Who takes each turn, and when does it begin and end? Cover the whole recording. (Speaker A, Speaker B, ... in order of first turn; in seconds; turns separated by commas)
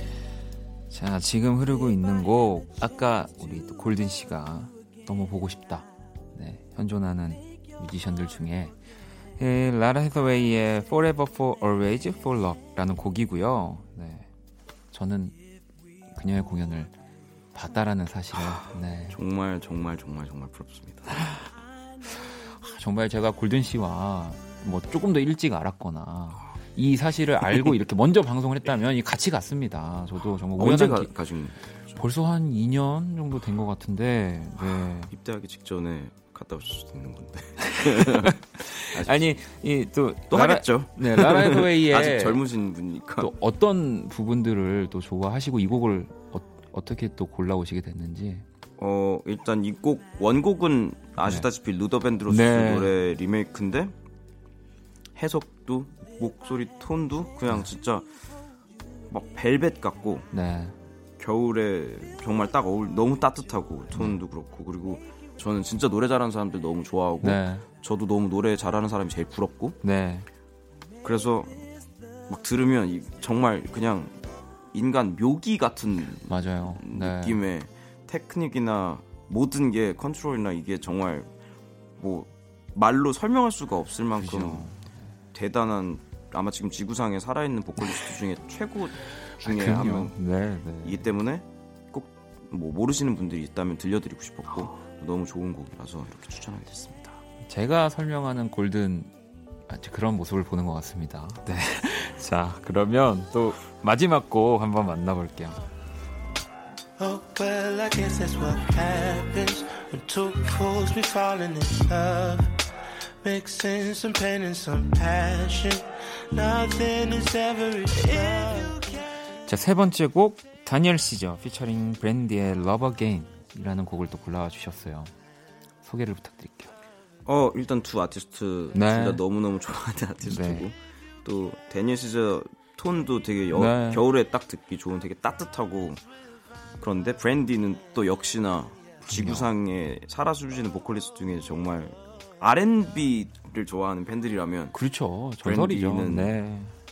Speaker A: 0.9-8.8, Speaker A: 9.4-14.3, Speaker A: 14.9-15.4, Speaker A: 16.1-16.9, Speaker A: 17.5-19.1, Speaker B: 18.3-21.1, Speaker A: 21.1-21.4, Speaker A: 22.2-31.1, Speaker B: 30.6-32.0, Speaker A: 31.9-35.1, Speaker B: 34.6-38.4, Speaker A: 37.7-42.4, Speaker B: 38.9-39.3, Speaker B: 40.3-43.3, Speaker A: 43.2-48.5, Speaker B: 48.8-53.9, Speaker A: 52.3-52.9, Speaker B: 55.1-58.1, Speaker B: 59.1-60.3, Speaker A: 60.3-60.7, Speaker B: 61.2-69.8, Speaker A: 67.2-67.6, Speaker A: 69.8-70.3, Speaker B: 71.0-71.5, Speaker B: 72.3-74.2, Speaker B: 74.7-81.3, Speaker A: 76.2-77.4, Speaker B: 82.0-84.7, Speaker A: 84.2-85.0, Speaker B: 85.3-90.2, Speaker A: 89.4-91.0, Speaker B: 90.8-97.2, Speaker A: 97.5-99.1, Speaker A: 99.7-105.6, Speaker C: 107.0-112.5, Speaker C: 113.2-115.8, Speaker C: 116.3-118.8, Speaker A: 119.5-125.1, Speaker A: 125.8-126.7, Speaker B: 127.2-136.0, Speaker A: 128.7-129.2, Speaker A: 130.2-130.7, Speaker A: 133.5-134.0, Speaker B: 136.8-144.8, Speaker A: 139.1-139.5, Speaker A: 144.7-146.7, Speaker B: 145.4-146.3